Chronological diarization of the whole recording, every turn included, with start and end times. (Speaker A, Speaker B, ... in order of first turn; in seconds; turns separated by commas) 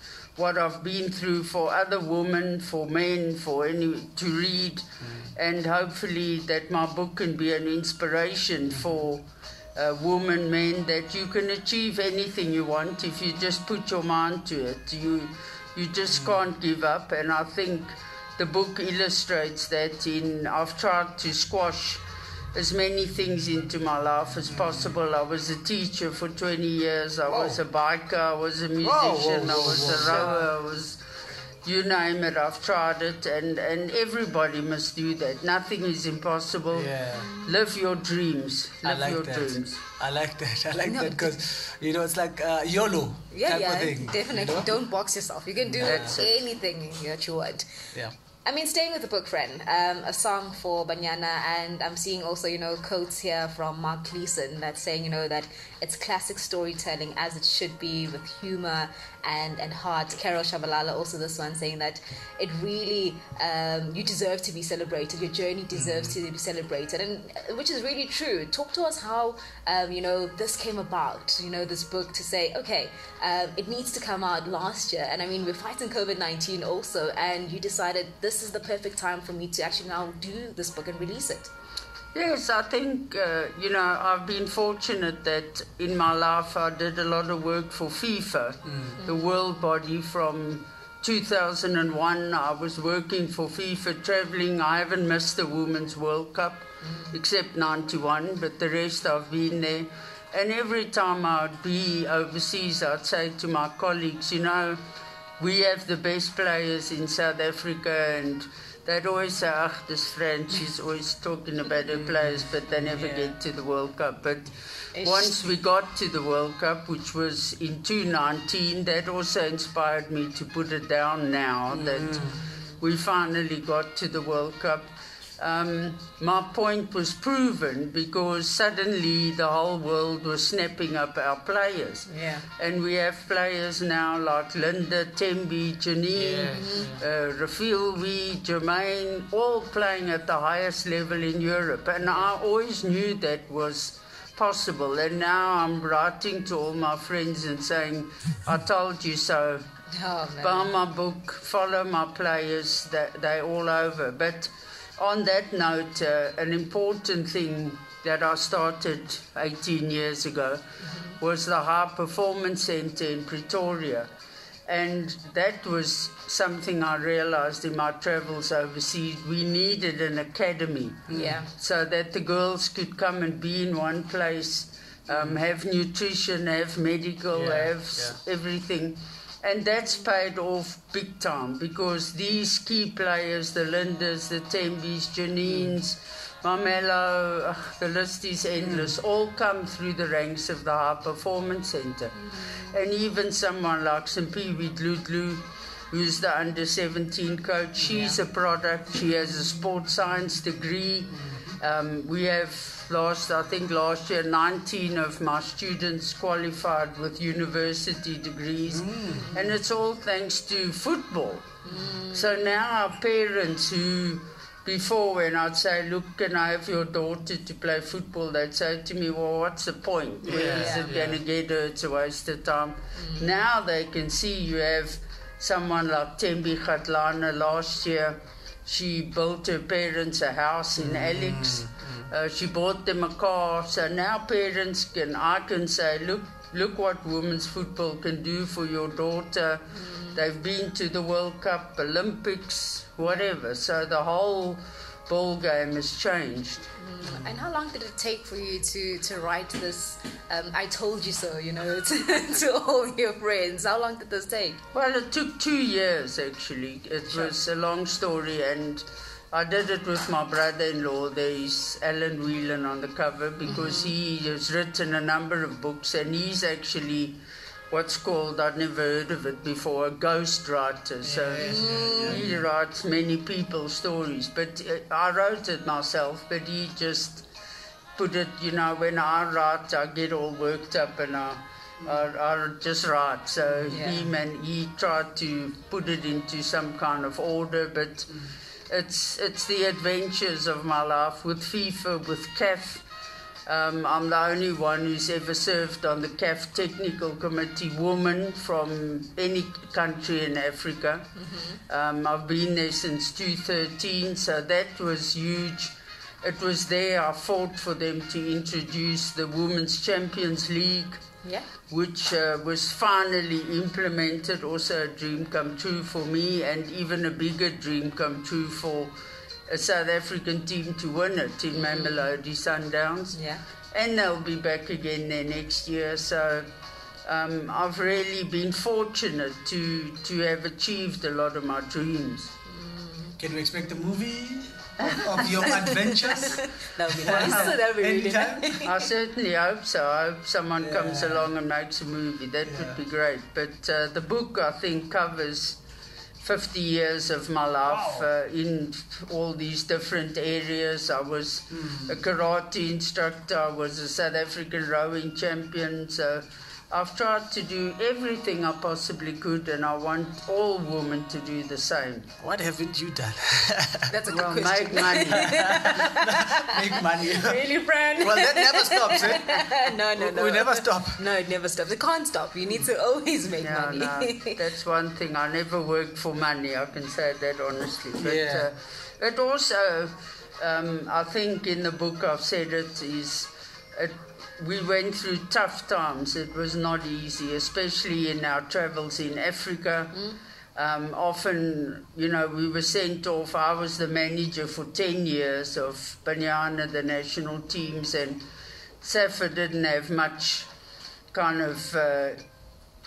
Speaker A: 0.3-22.0, Speaker B: 5.0-5.3, Speaker B: 16.0-16.4, Speaker A: 22.5-31.0, Speaker B: 24.5-24.9, Speaker B: 27.2-27.6, Speaker B: 28.8-30.4, Speaker C: 29.5-30.4, Speaker A: 31.6-36.9, Speaker B: 36.7-37.3, Speaker C: 37.2-37.5, Speaker A: 37.4-39.8, Speaker B: 38.8-44.8, Speaker C: 40.9-41.3, Speaker C: 43.3-47.7, Speaker B: 45.6-46.2, Speaker A: 45.8-46.4, Speaker C: 48.4-81.5, Speaker B: 65.7-66.2, Speaker A: 82.1-104.8, Speaker B: 88.7-89.0, Speaker C: 96.8-97.1, Speaker A: 105.4-122.2, Speaker B: 111.9-113.3, Speaker C: 114.9-115.4, Speaker B: 121.7-122.4, Speaker C: 122.2-122.8, Speaker A: 122.8-149.6, Speaker C: 132.1-132.5, Speaker B: 136.1-137.0, Speaker C: 136.5-136.9, Speaker C: 142.0-142.3, Speaker C: 149.9-150.7, Speaker A: 150.4-160.6, Speaker C: 160.9-161.1, Speaker A: 161.2-164.1, Speaker A: 164.7-211.6, Speaker B: 171.1-171.4, Speaker C: 171.1-171.5, Speaker B: 175.1-175.4, Speaker B: 177.3-178.2, Speaker B: 185.4-185.8, Speaker B: 188.6-188.9, Speaker C: 192.3-192.6, Speaker C: 197.9-198.2, Speaker B: 201.2-201.5, Speaker B: 208.7-209.3, Speaker C: 209.2-209.5, Speaker C: 211.6-212.4, Speaker A: 212.1-246.7, Speaker B: 220.2-221.2, Speaker C: 220.3-220.9, Speaker C: 222.9-223.3, Speaker B: 230.8-232.1, Speaker C: 239.7-240.2, Speaker C: 246.8-254.6, Speaker B: 247.0-247.5, Speaker A: 254.7-267.2, Speaker C: 263.4-263.9, Speaker A: 267.7-277.2, Speaker B: 271.0-272.4, Speaker C: 271.4-272.2, Speaker A: 277.9-288.1, Speaker B: 283.4-283.8, Speaker C: 283.7-284.0, Speaker A: 288.7-292.8, Speaker A: 293.4-301.1, Speaker C: 301.2-301.6, Speaker A: 301.7-311.0, Speaker A: 311.7-318.9, Speaker A: 319.5-323.2, Speaker C: 321.5-322.1, Speaker C: 323.1-323.4, Speaker A: 323.7-326.5, Speaker A: 327.0-332.3, Speaker C: 332.5-333.1, Speaker B: 333.2-338.6, Speaker A: 334.8-335.5, Speaker C: 335.1-338.8, Speaker A: 337.1-337.5, Speaker A: 338.6-345.6, Speaker B: 340.6-341.3, Speaker B: 342.4-342.8, Speaker A: 346.2-362.1, Speaker B: 347.6-348.1, Speaker B: 351.5-352.0, Speaker B: 362.2-363.9, Speaker C: 363.9-374.4, Speaker A: 364.1-365.3, Speaker B: 365.1-367.4, Speaker B: 368.0-371.0, Speaker A: 373.4-390.0, Speaker B: 378.0-378.5, Speaker C: 389.9-390.2, Speaker A: 390.5-398.2, Speaker A: 398.8-400.5, Speaker A: 401.1-402.2